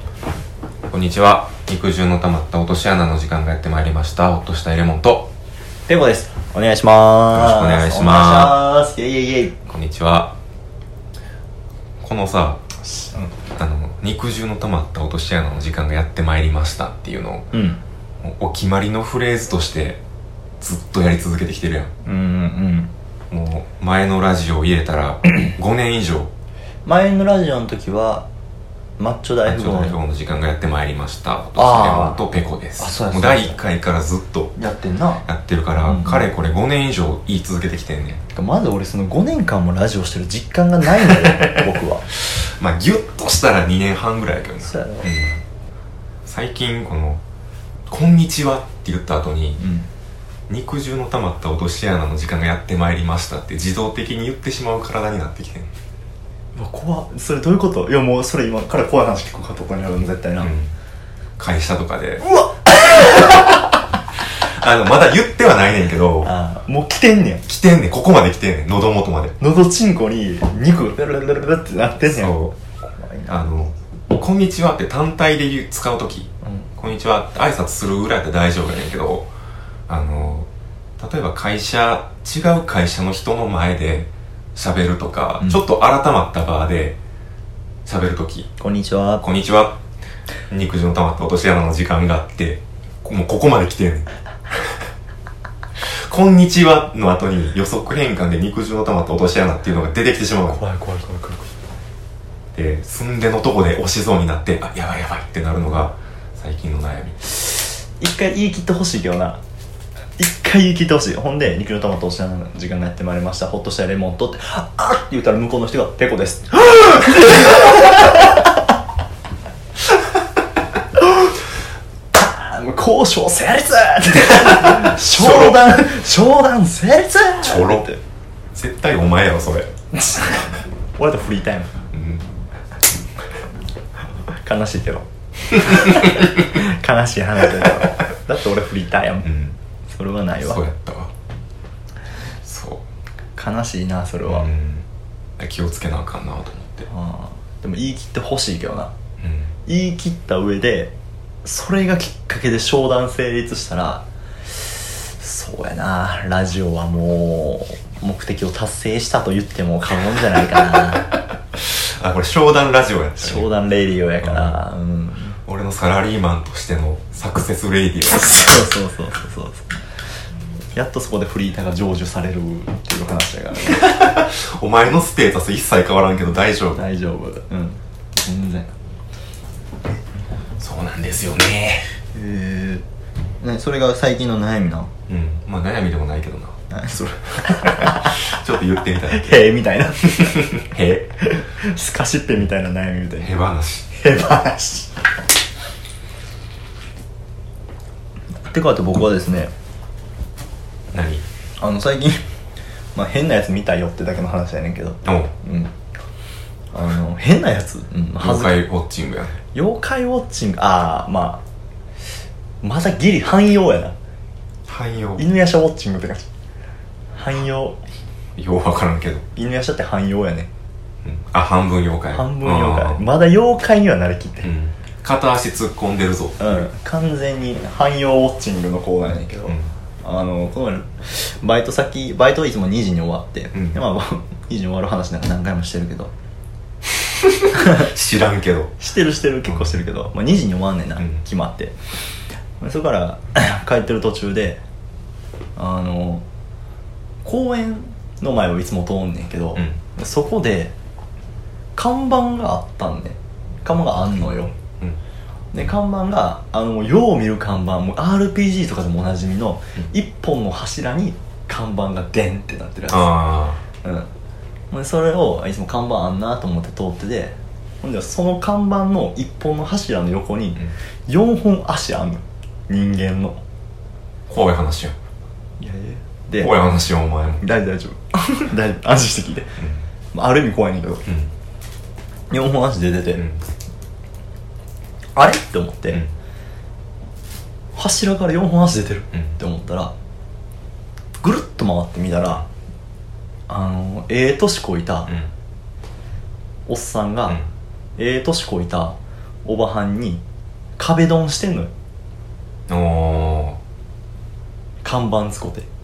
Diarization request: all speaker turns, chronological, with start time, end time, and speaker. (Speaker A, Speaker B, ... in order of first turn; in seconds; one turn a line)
Speaker A: 0.9-5.3
Speaker B: 5.9-9.6
Speaker A: 7.3-8.7
Speaker A: 9.7-10.3
Speaker A: 12.0-12.6
Speaker B: 13.0-13.3
Speaker A: 13.6-17.5
Speaker B: 17.5-17.8
Speaker A: 18.2-20.0
Speaker A: 20.6-21.9
Speaker B: 22.1-22.9
Speaker A: 23.3-26.3
Speaker B: 26.9-28.3
Speaker B: 29.0-30.0
Speaker A: 29.4-34.5
Speaker B: 31.6-32.2
Speaker B: 32.8-33.6
Speaker B: 34.6-35.3
Speaker A: 35.2-38.2
Speaker B: 35.8-36.3
Speaker B: 38.3-42.1
Speaker A: 41.2-41.5
Speaker A: 42.3-45.4
Speaker B: 44.6-45.1
Speaker A: 46.2-47.2
Speaker A: 47.9-49.6
Speaker B: 49.6-49.9
Speaker A: 50.5-55.7
Speaker B: 56.5-60.5
Speaker A: 60.4-60.7
Speaker A: 61.4-62.2
Speaker B: 62.2-63.3
Speaker A: 64.2-66.3
Speaker B: 66.2-67.5
Speaker A: 67.5-69.4
Speaker B: 69.4-73.4
Speaker A: 72.0-72.5
Speaker A: 73.3-79.3
Speaker A: 79.9-87.0
Speaker A: 87.9-88.5
Speaker B: 88.6-89.2
Speaker A: 89.2-89.8
Speaker A: 90.5-94.8
Speaker A: 95.8-100.6
Speaker B: 100.5-101.6
Speaker A: 102.5-107.2
Speaker B: 107.5-109.4
Speaker B: 110.2-118.6
Speaker B: 121.0-121.3
Speaker B: 122.1-128.0
Speaker A: 124.4-125.7
Speaker A: 127.4-127.9
Speaker A: 128.5-129.7
Speaker B: 129.9-131.7
Speaker A: 131.9-132.3
Speaker B: 134.4-139.3
Speaker A: 135.6-136.2
Speaker A: 139.2-139.6
Speaker B: 139.9-140.6
Speaker A: 140.4-141.1
Speaker A: 142.4-142.8
Speaker B: 143.4-144.5
Speaker A: 144.3-146.9
Speaker B: 146.9-148.9
Speaker A: 149.2-149.5
Speaker B: 149.7-161.1
Speaker A: 161.5-163.5
Speaker B: 163.2-165.4
Speaker A: 164.2-164.6
Speaker A: 165.5-168.7
Speaker B: 168.1-169.7
Speaker B: 170.8-174.0
Speaker A: 173.6-176.8
Speaker B: 176.7-178.7
Speaker A: 180.6-181.9
Speaker B: 182.1-182.8
Speaker B: 183.4-184.9
Speaker A: 185.1-186.6
Speaker B: 186.7-188.2
Speaker A: 187.5-189.4
Speaker B: 189.1-190.6
Speaker A: 190.2-191.1
Speaker B: 191.2-193.3
Speaker A: 193.2-193.9
Speaker B: 193.9-194.9
Speaker B: 198.5-199.5
Speaker A: 200.9-201.2
Speaker B: 201.6-202.2
Speaker B: 202.9-205.7
Speaker A: 205.1-205.3
Speaker B: 206.7-208.6
Speaker A: 208.2-209.3
Speaker B: 209.5-211.4
Speaker B: 212.6-214.0
Speaker A: 214.7-215.2
Speaker B: 215.2-216.3
Speaker B: 217.1-217.8
Speaker A: 218.4-219.2
Speaker B: 219.3-220.5
Speaker A: 221.0-223.1
Speaker B: 222.1-224.5
Speaker A: 224.4-226.7
Speaker B: 226.4-236.1
Speaker A: 233.5-233.8
Speaker A: 237.4-238.7
Speaker B: 237.5-237.9
Speaker B: 238.8-241.8
Speaker A: 239.5-239.8
Speaker B: 242.6-244.6
Speaker B: 245.6-246.2
Speaker B: 247.2-250.7
Speaker B: 251.8-254.6
Speaker B: 255.5-263.1
Speaker A: 262.9-263.6
Speaker B: 263.8-264.1
Speaker B: 264.7-273.4
Speaker A: 274.3-274.9
Speaker B: 275.6-276.5
Speaker A: 276.4-277.4
Speaker B: 277.4-279.6
Speaker A: 279.6-279.8
Speaker B: 280.1-281.0
Speaker A: 281.1-281.3
Speaker B: 282.3-283.2
Speaker A: 283.1-283.4
Speaker B: 285.2-286.0
Speaker B: 287.8-289.9
Speaker B: 291.2-292.4
Speaker B: 293.5-295.1
Speaker B: 296.7-297.4
Speaker B: 298.0-300.2
Speaker B: 300.8-301.7
Speaker A: 302.7-303.6
Speaker B: 304.8-305.7